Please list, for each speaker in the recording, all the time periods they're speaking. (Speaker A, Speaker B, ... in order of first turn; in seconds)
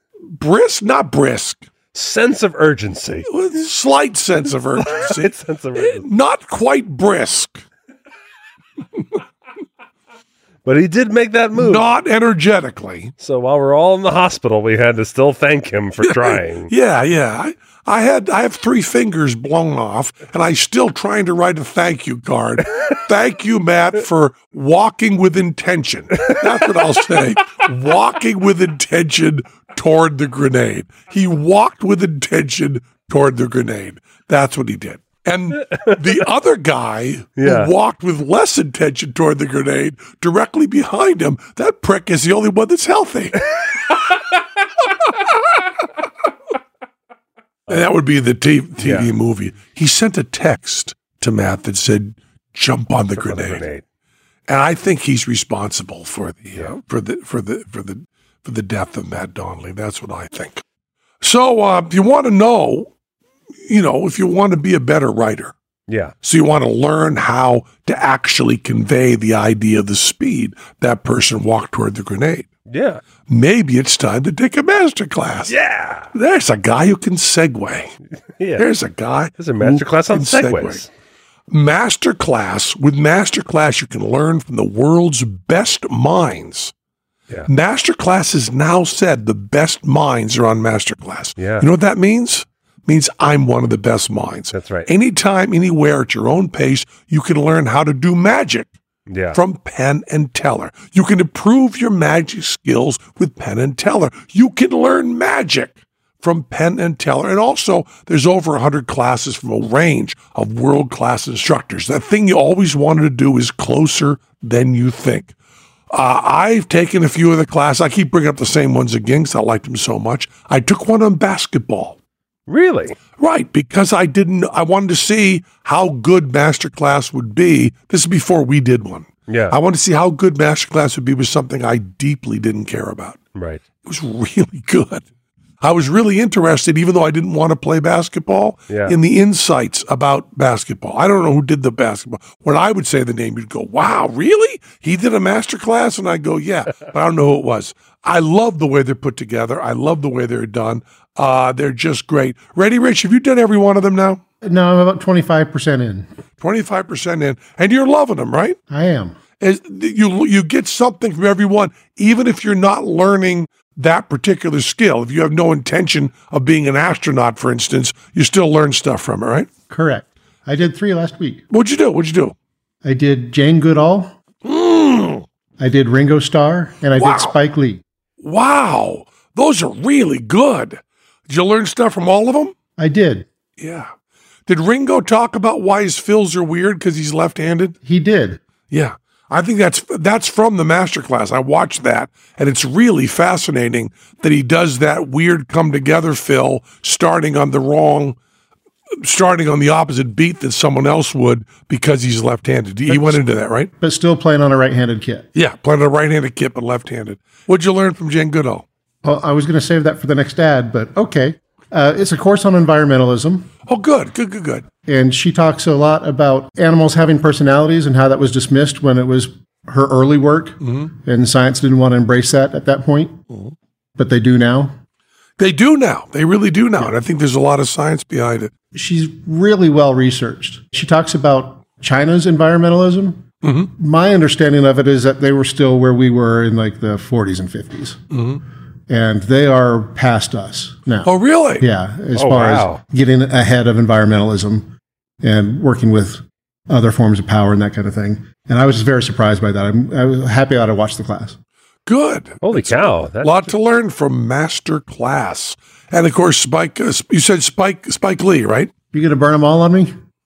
Speaker A: 0.3-1.6, 3.3-7.6, 11.6-13.1, 16.0-43.4, 47.7-53.7, 54.5-60.6, 61.2-62.9, 63.6-65.5, 66.2-72.5, 73.3-75.5, 76.1-77.9, 78.6-80.8, 81.5-86.7, 87.5-98.7, 99.3-115.3, 115.9-122.0, 123.2-133.2, 133.8-135.1, 135.6-154.2, 156.4-158.6, 159.4-169.5, 171.5-172.3, 174.4-175.2, 177.0-177.4, 178.2-182.6, 183.6-183.9, 184.5-187.8, 188.7-198.2, 199.0-203.7, 205.3-208.7, 213.7-214.7, 225.4-228.5, 233.4-233.7, 238.1-238.4, 241.1-241.7, 251.9-258.7
Speaker B: 1.9-3.3, 4.8-6.0, 10.7-11.9, 13.2-16.7, 35.7-36.0, 37.4-37.7, 48.8-49.1, 53.2-53.8, 65.9-66.1, 72.7-73.0, 75.5-76.1, 78.4-78.7, 79.4-80.9, 91.4-91.7, 94.5-94.9, 99.1-99.4, 122.5-123.0, 129.3-129.6, 133.3-133.6, 138.7-139.0, 242.2-242.8, 252.4-253.5
Speaker C: 154.4-156.1, 158.7-159.2, 169.7-171.4, 172.8-174.1, 175.6-177.8, 182.8-183.3, 187.8-188.4, 202.9-203.2, 203.8-205.3, 209.0-213.5, 214.9-223.2, 224.0-224.7, 228.7-238.0, 238.9-251.4, 258.9-259.9